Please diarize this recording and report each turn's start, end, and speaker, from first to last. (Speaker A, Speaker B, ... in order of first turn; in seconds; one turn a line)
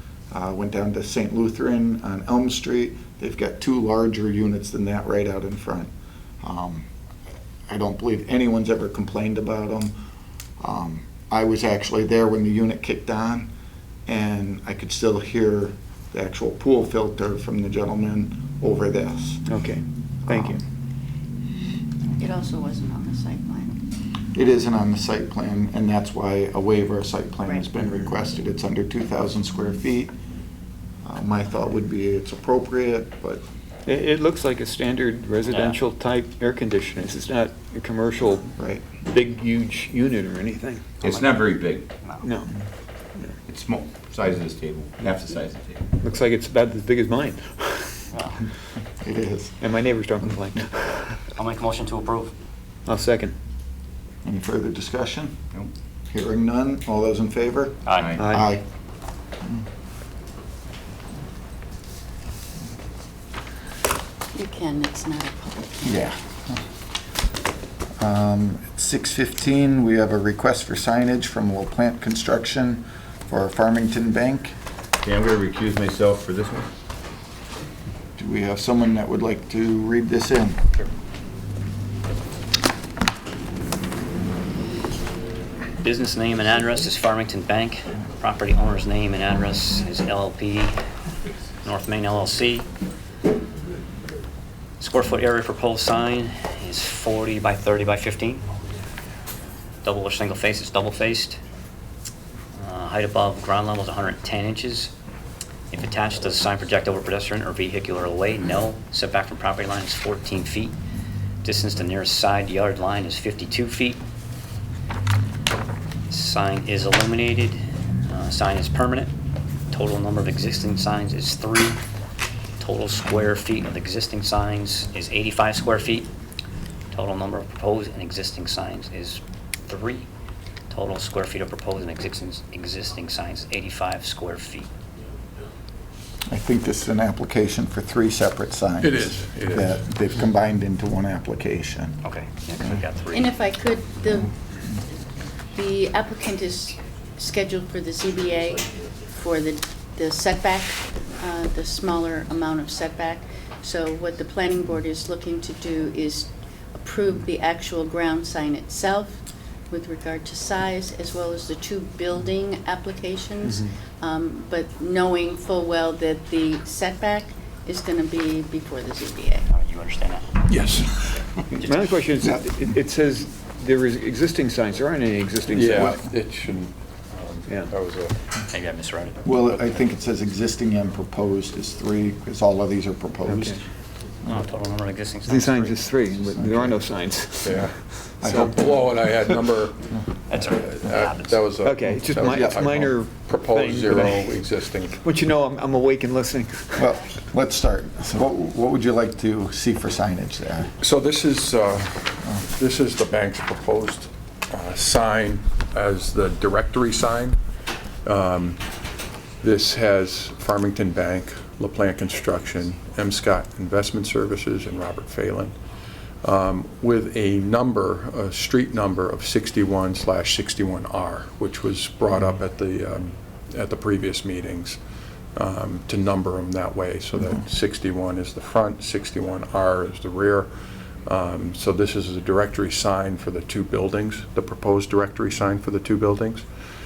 Speaker A: 0.3-5.9
Speaker A: 6.4-6.9
Speaker A: 7.7-10.0
Speaker A: 10.6-13.5
Speaker A: 14.1-19.4
Speaker B: 19.5-20.6
Speaker A: 20.3-20.6
Speaker C: 22.2-23.8
Speaker A: 24.3-30.1
Speaker A: 31.0-33.5
Speaker B: 33.9-41.0
Speaker D: 35.5-35.8
Speaker A: 38.6-38.9
Speaker E: 41.0-41.9
Speaker B: 42.2-42.5
Speaker E: 43.5-45.8
Speaker B: 46.0-48.1
Speaker D: 48.1-48.4
Speaker A: 49.0-49.6
Speaker B: 49.6-51.2
Speaker D: 51.4-52.3
Speaker B: 52.9-53.4
Speaker A: 54.2-55.4
Speaker A: 56.1-58.6
Speaker D: 57.9-58.2
Speaker E: 58.0-58.3
Speaker B: 58.2-58.5
Speaker C: 64.3-66.0
Speaker A: 65.8-66.6
Speaker A: 68.0-74.5
Speaker E: 75.0-76.7
Speaker A: 78.2-80.6
Speaker D: 85.8-90.8
Speaker D: 91.6-92.7
Speaker D: 94.8-98.5
Speaker D: 99.8-101.4
Speaker D: 102.6-104.9
Speaker D: 105.7-110.8
Speaker D: 111.4-114.0
Speaker D: 116.1-119.1
Speaker D: 119.7-121.8
Speaker D: 122.6-126.1
Speaker D: 126.9-130.1
Speaker D: 130.7-134.7
Speaker A: 136.3-142.0
Speaker F: 138.8-139.9
Speaker D: 142.0-143.4
Speaker C: 143.1-144.3
Speaker C: 145.5-169.5
Speaker B: 163.4-163.8
Speaker D: 169.5-170.3
Speaker F: 170.5-171.0
Speaker D: 171.6-172.0
Speaker B: 171.6-176.0
Speaker F: 175.5-178.2
Speaker B: 177.5-177.7
Speaker D: 178.5-179.2
Speaker A: 179.2-183.6
Speaker F: 179.4-179.8
Speaker B: 183.3-183.6
Speaker D: 184.3-185.8
Speaker B: 185.2-189.3
Speaker A: 186.1-186.8
Speaker F: 187.4-189.9
Speaker A: 188.2-188.8
Speaker D: 190.3-191.4
Speaker F: 190.4-195.0
Speaker B: 191.6-194.4
Speaker A: 192.2-192.7
Speaker B: 195.0-196.9
Speaker A: 196.8-200.7
Speaker F: 200.8-207.4
Speaker F: 208.1-208.6
Speaker F: 209.4-215.6
Speaker F: 216.2-224.8
Speaker F: 225.4-230.5
Speaker F: 231.1-236.4